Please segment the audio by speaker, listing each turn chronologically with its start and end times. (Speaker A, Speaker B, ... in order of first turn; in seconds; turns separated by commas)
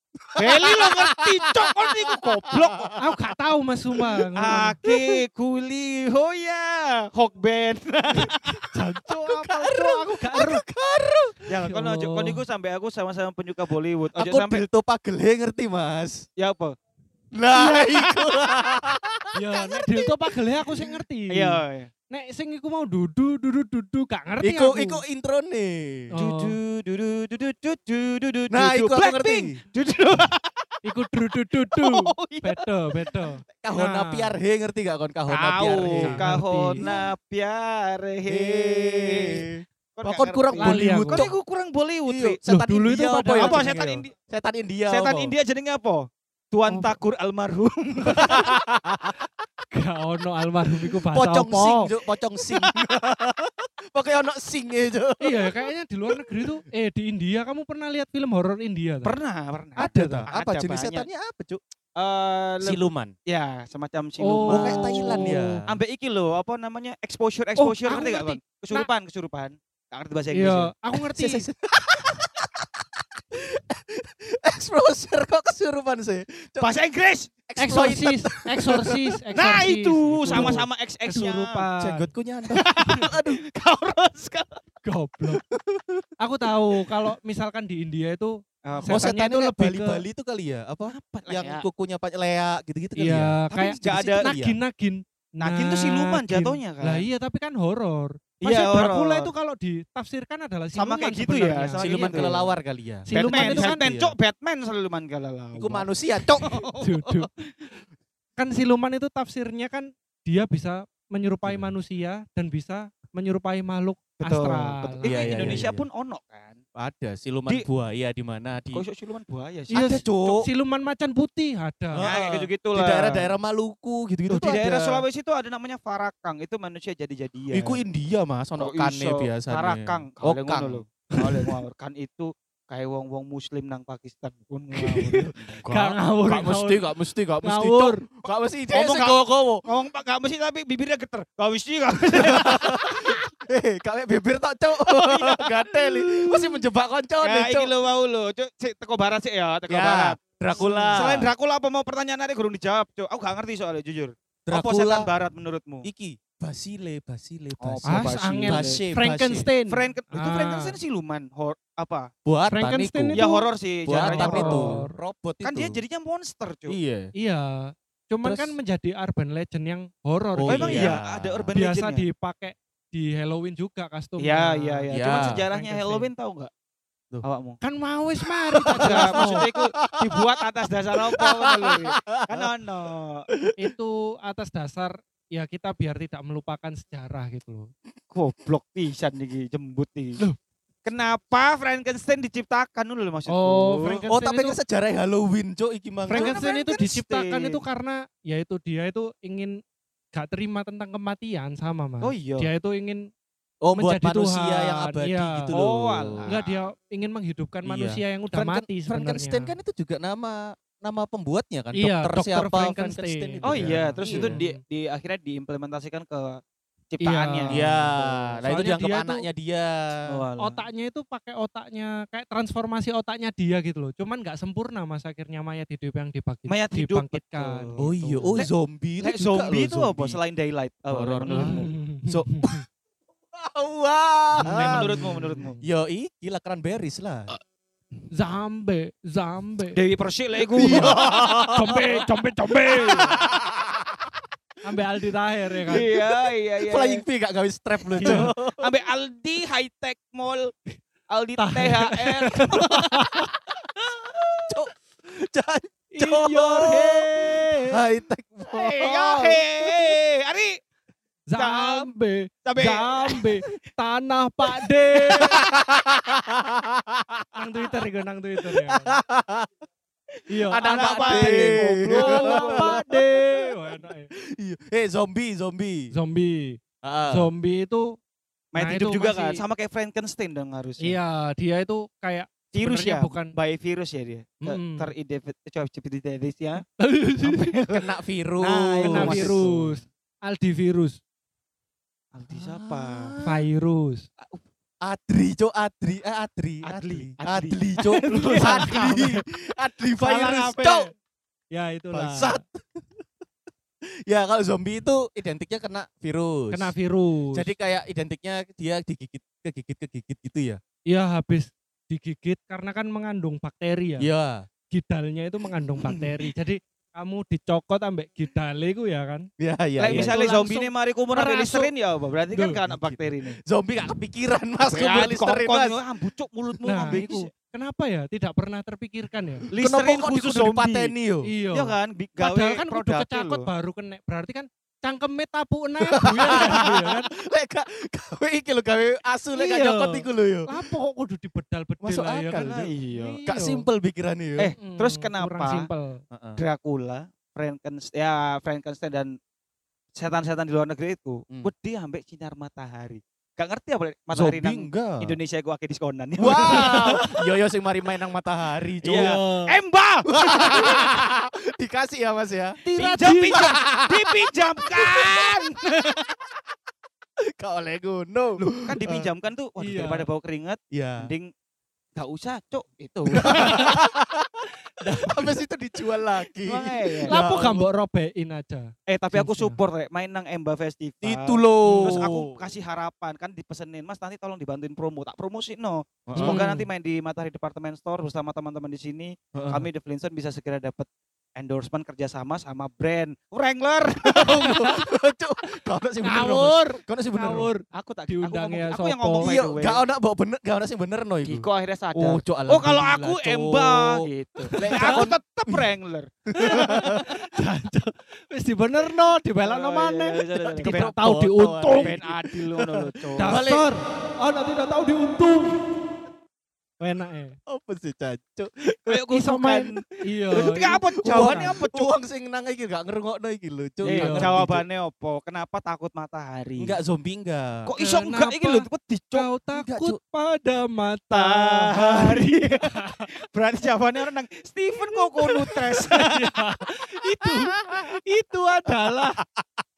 Speaker A: 0.3-2.9, Speaker B: 0.3-2.9, Speaker C: 3.0-4.8, Speaker B: 4.4-8.4, Speaker C: 8.2-10.6, Speaker A: 8.9-11.4, Speaker B: 11.5-14.6, Speaker C: 11.6-12.4, Speaker A: 14.2-16.2, Speaker B: 16.4-16.7, Speaker A: 17.3-20.9, Speaker B: 17.5-18.4, Speaker C: 19.3-25.0, Speaker B: 21.3-21.9, Speaker A: 24.4-26.1, Speaker C: 26.1-26.6, Speaker B: 26.1-30.7, Speaker A: 28.5-29.6, Speaker C: 30.8-34.3, Speaker B: 31.7-32.6, Speaker A: 33.6-37.0, Speaker B: 35.3-42.4, Speaker C: 35.8-36.9, Speaker A: 38.2-41.3, Speaker C: 40.6-41.3, Speaker A: 42.0-45.3, Speaker C: 42.5-44.0, Speaker B: 43.4-44.1, Speaker B: 44.9-48.5, Speaker C: 46.7-46.9, Speaker A: 48.1-49.3, Speaker C: 49.7-51.9, Speaker A: 51.1-56.5, Speaker C: 55.2-59.1, Speaker B: 59.0-61.0, Speaker C: 59.8-60.3, Speaker A: 59.8-61.6, Speaker B: 62.0-70.7, Speaker A: 62.6-63.1, Speaker C: 64.2-65.6, Speaker A: 64.4-65.7, Speaker C: 67.6-68.9, Speaker C: 70.3-71.5, Speaker A: 71.1-72.7, Speaker A: 73.3-76.7, Speaker B: 76.6-77.3, Speaker A: 77.5-78.9, Speaker C: 77.6-82.1, Speaker B: 79.3-81.7, Speaker A: 80.3-80.6, Speaker A: 81.8-83.4, Speaker B: 82.5-84.6, Speaker C: 84.8-85.4, Speaker A: 85.5-86.1, Speaker C: 86.2-90.0, Speaker B: 88.6-89.0, Speaker A: 88.8-94.6, Speaker B: 90.9-91.7, Speaker C: 93.0-102.4, Speaker B: 93.8-94.3, Speaker B: 95.4-97.1, Speaker B: 98.4-99.3, Speaker B: 100.7-102.5, Speaker A: 101.8-104.1, Speaker C: 103.0-103.8, Speaker B: 103.1-107.5, Speaker A: 105.5-106.5, Speaker C: 106.8-107.3, Speaker C: 108.4-115.6, Speaker A: 111.5-111.7, Speaker B: 114.2-116.6, Speaker A: 115.0-115.8, Speaker A: 116.8-118.8, Speaker B: 118.7-120.0, Speaker A: 119.7-120.5, Speaker C: 119.7-122.1, Speaker A: 121.9-125.0, Speaker B: 122.0-123.3, Speaker B: 124.3-127.8, Speaker A: 127.5-130.8, Speaker B: 128.6-135.7, Speaker C: 134.9-136.8, Speaker A: 135.4-139.6, Speaker C: 137.4-138.0, Speaker B: 138.7-143.2, Speaker A: 142.1-147.7, Speaker B: 144.8-146.6, Speaker B: 147.2-155.8, Speaker A: 149.7-151.3, Speaker C: 150.5-151.2, Speaker A: 154.5-155.1, Speaker A: 155.8-159.5, Speaker B: 157.6-162.1, Speaker C: 157.8-160.7, Speaker A: 162.2-163.3, Speaker C: 162.5-164.9, Speaker B: 163.1-164.8, Speaker A: 163.8-165.8, Speaker B: 165.4-166.8, Speaker A: 166.7-167.1, Speaker C: 167.2-171.0, Speaker A: 168.2-168.6, Speaker A: 170.3-171.5, Speaker B: 170.5-172.1, Speaker C: 171.5-176.1, Speaker B: 174.2-176.5, Speaker A: 174.9-175.4, Speaker B: 177.2-177.6, Speaker C: 177.6-179.5, Speaker A: 178.5-180.4, Speaker B: 178.8-183.2, Speaker A: 181.0-182.4, Speaker C: 183.6-187.7, Speaker B: 188.1-190.2, Speaker B: 190.8-194.0, Speaker C: 193.3-194.6, Speaker A: 194.1-196.4, Speaker C: 196.1-199.6, Speaker B: 196.1-197.6, Speaker C: 200.1-203.1, Speaker B: 202.0-202.5, Speaker A: 203.6-206.3, Speaker C: 203.7-205.5, Speaker B: 205.5-206.6, Speaker C: 206.2-209.5, Speaker A: 207.6-214.4, Speaker C: 211.7-214.6, Speaker B: 213.4-218.8, Speaker C: 217.0-219.3, Speaker A: 217.5-220.0, Speaker B: 220.1-220.7, Speaker C: 220.4-228.4, Speaker B: 226.5-228.5, Speaker A: 227.8-230.2, Speaker B: 229.0-231.7, Speaker A: 230.9-232.6, Speaker C: 231.3-232.6, Speaker A: 233.3-235.0, Speaker C: 234.4-235.5, Speaker B: 234.4-235.6, Speaker A: 235.6-237.3, Speaker C: 238.1-239.8, Speaker B: 239.7-241.1, Speaker A: 240.6-241.9, Speaker C: 240.6-243.2, Speaker A: 242.8-244.1, Speaker C: 244.6-245.8, Speaker B: 245.7-247.0, Speaker A: 245.7-246.1, Speaker A: 246.6-248.7, Speaker B: 247.9-253.1, Speaker C: 248.0-248.3, Speaker C: 251.4-253.3, Speaker A: 254.5-259.9, Speaker C: 255.9-257.8, Speaker B: 258.5-260.6, Speaker C: 261.3-265.4, Speaker B: 261.3-261.9, Speaker B: 262.4-263.3, Speaker A: 265.1-267.3, Speaker C: 267.3-269.0, Speaker A: 268.6-269.5, Speaker C: 270.3-274.1, Speaker A: 270.5-273.0, Speaker B: 270.6-272.8, Speaker A: 274.1-275.9, Speaker C: 275.9-277.9, Speaker A: 276.8-277.3, Speaker B: 278.5-281.0, Speaker C: 278.5-279.4, Speaker C: 280.8-283.3, Speaker B: 282.5-286.6, Speaker C: 284.4-284.9, Speaker C: 286.8-287.5, Speaker B: 287.2-287.8, Speaker A: 287.7-289.5, Speaker B: 288.4-289.8, Speaker C: 288.8-291.0, Speaker B: 292.1-293.1, Speaker A: 292.3-293.4, Speaker C: 293.2-294.0, Speaker A: 294.8-300.9, Speaker B: 296.6-299.0, Speaker C: 298.1-299.2, Speaker C: 299.9-300.9, Speaker C: 301.5-302.4, Speaker A: 301.9-303.0, Speaker A: 303.8-306.7, Speaker C: 306.5-307.5, Speaker A: 307.3-310.6, Speaker C: 310.9-314.1, Speaker A: 314.0-314.5, Speaker C: 314.7-319.2, Speaker B: 315.8-316.2, Speaker A: 319.4-320.1, Speaker B: 319.8-323.4, Speaker C: 319.9-321.7, Speaker C: 322.3-322.6, Speaker A: 322.6-325.8, Speaker B: 324.6-327.3, Speaker C: 326.6-329.5, Speaker A: 326.7-327.2, Speaker A: 329.5-331.3, Speaker B: 329.5-330.9, Speaker C: 331.2-337.1, Speaker B: 331.5-333.5, Speaker A: 335.9-340.6, Speaker C: 339.3-343.6, Speaker A: 341.8-342.7, Speaker B: 342.3-343.2, Speaker A: 343.2-344.5, Speaker B: 344.4-345.7, Speaker C: 344.6-346.0, Speaker A: 346.1-346.4, Speaker B: 346.4-349.1, Speaker B: 350.0-357.1, Speaker A: 354.1-355.1, Speaker A: 356.2-362.6, Speaker B: 358.8-360.9, Speaker C: 359.0-359.3, Speaker C: 362.6-363.6, Speaker B: 362.8-365.7, Speaker A: 363.3-364.2, Speaker A: 364.7-365.4, Speaker A: 367.4-369.1, Speaker B: 368.4-371.3, Speaker C: 369.6-370.1, Speaker A: 370.7-371.1, Speaker B: 371.9-373.8, Speaker A: 373.1-377.7, Speaker C: 373.3-373.6, Speaker B: 376.4-377.2, Speaker C: 377.1-379.6, Speaker B: 378.9-394.5, Speaker A: 381.0-382.4, Speaker C: 381.6-382.0, Speaker A: 386.1-386.5, Speaker C: 386.1-386.6, Speaker A: 389.3-389.7, Speaker A: 394.1-397.5, Speaker C: 394.4-394.8, Speaker C: 396.0-399.3, Speaker B: 397.7-399.8, Speaker A: 399.2-405.7, Speaker B: 401.2-407.0, Speaker C: 404.5-405.1, Speaker A: 406.3-407.1, Speaker C: 406.4-412.0, Speaker B: 409.4-410.9, Speaker A: 410.6-413.7, Speaker B: 411.8-413.4, Speaker C: 413.2-415.6, Speaker C: 416.8-417.4, Speaker A: 417.5-419.0, Speaker B: 418.8-421.9, Speaker C: 419.1-421.5, Speaker A: 421.0-424.6, Speaker B: 423.8-426.8, Speaker C: 423.9-424.4, Speaker A: 426.6-427.7, Speaker B: 427.6-429.3, Speaker C: 427.8-433.0, Speaker A: 429.5-430.0, Speaker B: 431.1-436.2, Speaker C: 435.7-439.2